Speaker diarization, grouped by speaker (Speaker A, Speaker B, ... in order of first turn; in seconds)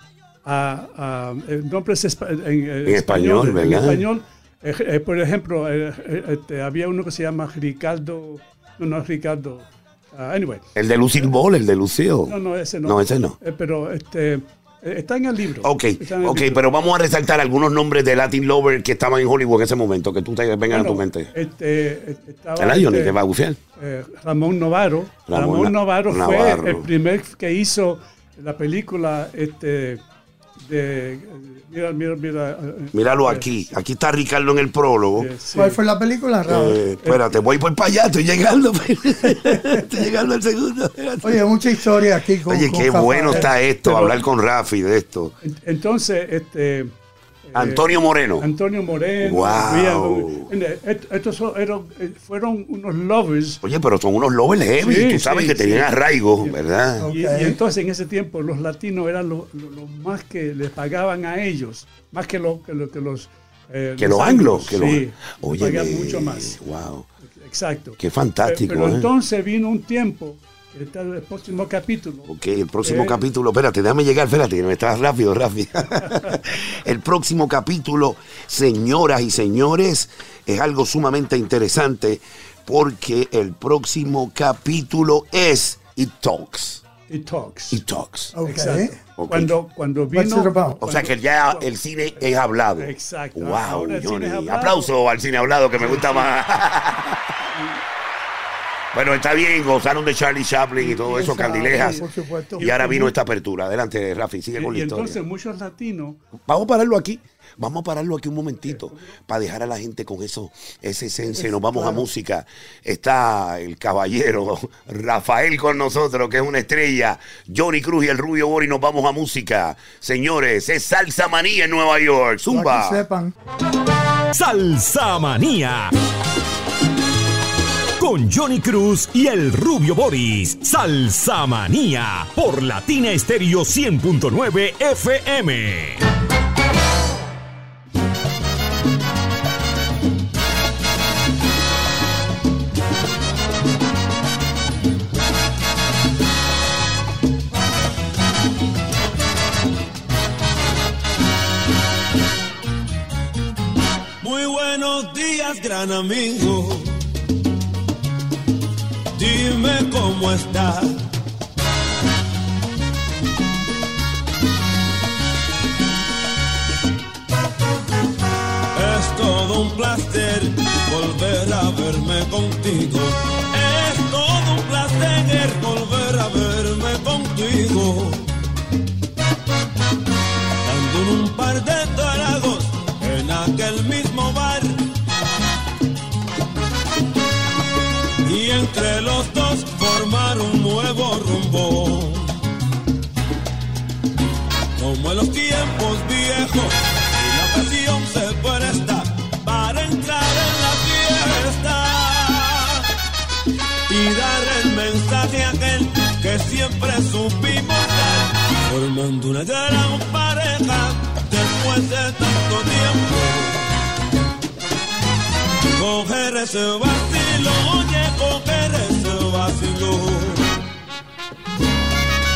Speaker A: 0.4-10.6, 12.3-16.6, 20.7-23.2, 23.8-30.0, 30.6-33.5, 35.2-35.8, 43.3-44.2, 45.4-46.9, 47.5-53.6, 54.8-55.9, 57.1-66.6, 67.2-73.2, 87.1-87.8, 88.4-91.7, 92.8-94.9, 95.8-96.3, 97.4-97.8, 101.2-102.0, 102.6-103.1, 104.5-106.2, 108.7-109.1
Speaker B: 2.8-4.0, 10.8-13.3, 15.6-21.3, 22.6-23.6, 25.3-26.9, 32.9-35.3, 36.5-41.4, 42.5-45.3, 47.5-48.5, 49.2-50.5, 53.6-57.1, 64.0-67.1, 68.0-69.1, 72.3-86.8, 87.7-88.3, 89.2-89.5, 90.8-97.2, 98.9-102.0, 102.6-105.2, 106.5-123.0
Speaker C: 35.5-36.8, 41.2-43.5, 57.0-57.6, 88.3-88.9, 90.1-90.8, 100.9-103.1, 111.3-112.0, 122.5-123.3
Speaker D: 124.3-125.9, 128.0-136.0
Speaker E: 154.2-157.0, 159.1-161.0, 168.7-178.3, 180.6-184.8, 188.2-192.4, 194.8-202.8, 203.9-213.7, 215.7-220.5